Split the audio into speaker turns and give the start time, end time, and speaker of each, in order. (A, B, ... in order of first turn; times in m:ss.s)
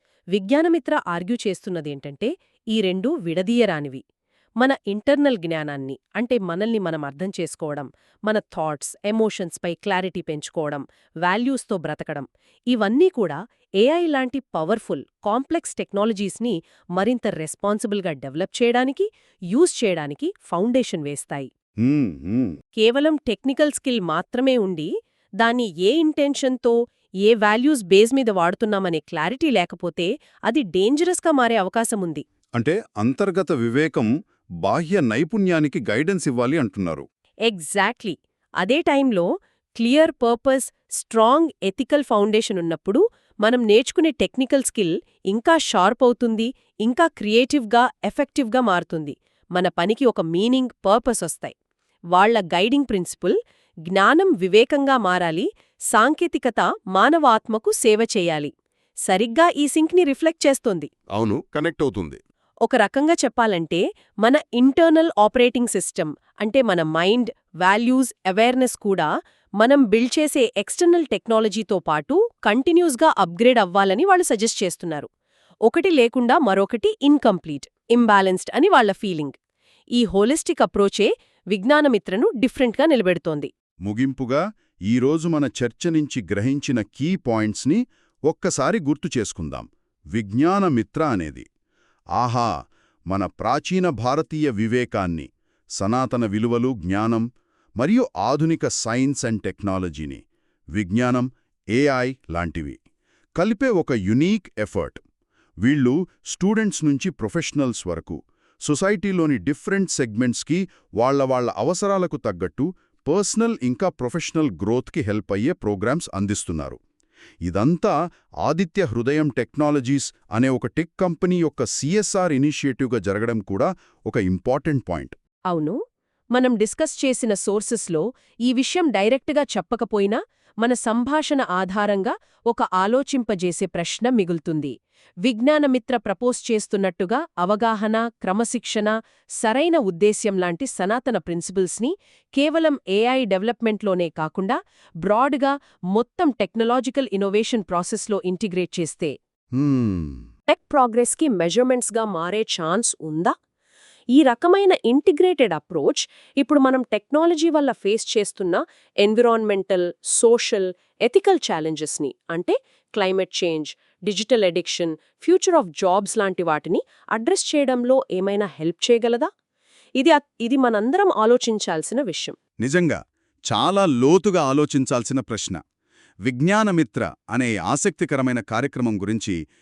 0:00.4-0:04.0 A
0:04.6-0:21.5 A
0:21.8-0:22.6 B
0:22.8-0:32.2 A
0:32.6-0:34.1 B
0:34.6-0:37.1 B
0:37.5-0:51.5 A
0:52.1-0:53.4 A
0:53.9-0:58.5 A
0:59.1-1:00.9 A
1:01.2-1:02.2 B
1:02.7-1:15.1 A
1:15.7-1:19.3 A
1:20.0-1:23.5 A
1:23.9-1:31.5 B
1:32.2-1:32.5 B
1:33.1-1:35.3 B
1:35.8-1:37.2 B
1:37.8-1:40.2 B
1:40.8-1:42.8 B
1:43.4-1:45.0 B
1:45.6-1:56.8 B
1:57.5-1:57.9 B
1:58.4-2:05.2 B
2:05.5-2:05.8 A
2:06.4-2:29.1 A
2:29.6-2:30.3 B
2:30.5-2:33.3 A
2:34.2-2:49.3 A
2:50.0-2:52.4 A
2:52.6-2:55.6 B
2:56.3-2:59.4 B